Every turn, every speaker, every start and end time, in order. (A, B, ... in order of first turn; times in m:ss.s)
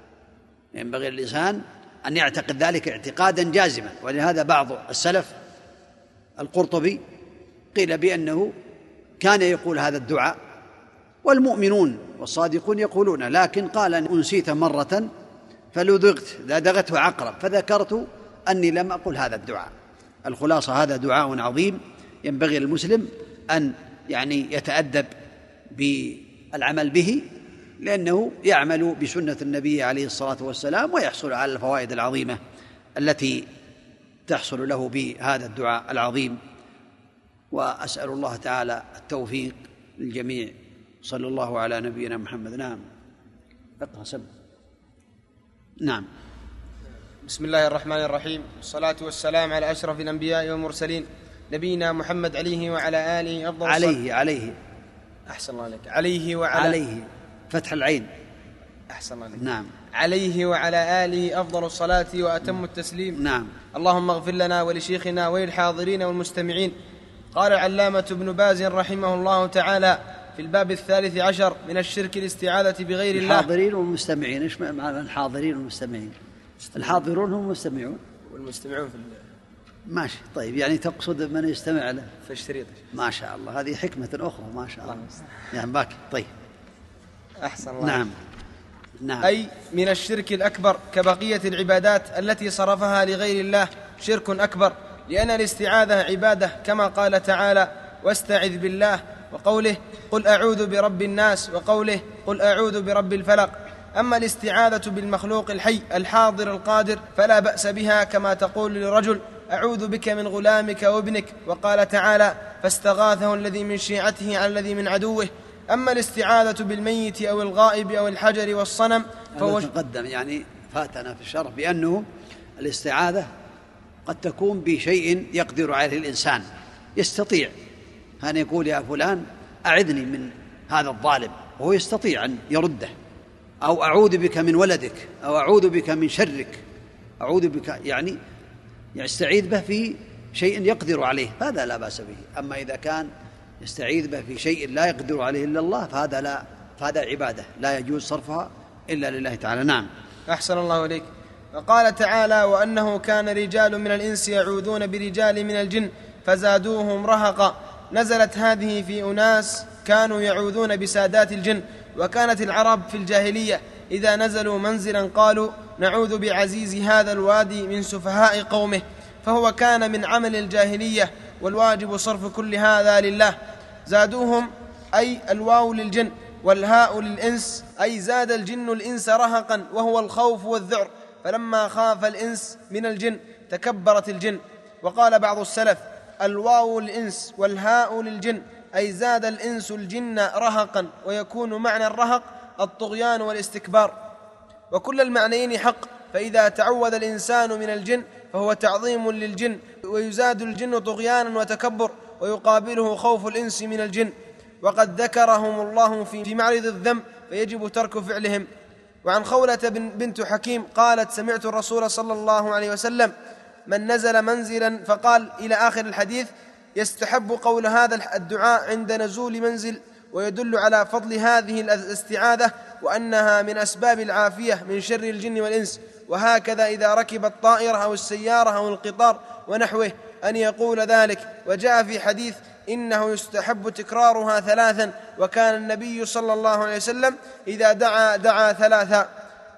0:00.7-0:05.3 A
0:06.4-0:07.0 A
0:07.7-0:08.5 A
0:09.2-0:10.4 A
0:11.2-0:15.1 A
0:15.7-0:19.7 A
0:20.2-0:25.1 A
0:25.7-0:27.2 A
0:27.8-0:32.4 A
0:33.0-0:33.4 A
0:34.3-0:36.4 A
0:37.5-0:42.8 A
0:43.8-0:44.3 A
0:45.8-0:46.1 A
0:47.2-0:54.0 B
0:53.6-0:54.6 A
0:55.3-0:56.8 B
0:56.5-0:58.1 A
0:58.9-0:59.4 B
0:59.4-0:59.7 A
0:59.9-1:03.2 B
1:03.2-1:03.5 A
1:03.7-1:06.7 B
1:07.3-1:13.5 B
1:13.1-1:16.2 A
1:16.8-1:18.0 A
1:18.3-1:19.2 B
1:19.9-1:22.1 A
1:22.3-1:22.8 B
1:22.9-1:26.3 A
1:24.9-1:25.2 B
1:27.4-1:28.1 B
1:27.8-1:28.2 A
1:29.0-1:29.3 A
1:29.2-1:59.7 B
1:59.4-2:02.1 A
2:02.6-2:03.3 A
2:04.1-2:06.5 A
2:07.0-2:07.5 A
2:08.2-2:12.9 A
2:13.6-2:16.6 A
2:17.2-2:18.2 A
2:19.0-2:23.1 A
2:23.6-2:29.9 A
2:30.3-2:53.4 B
2:53.9-3:13.9 B
3:14.7-3:28.5 B
3:29.0-3:33.1 B
3:33.7-3:59.1 B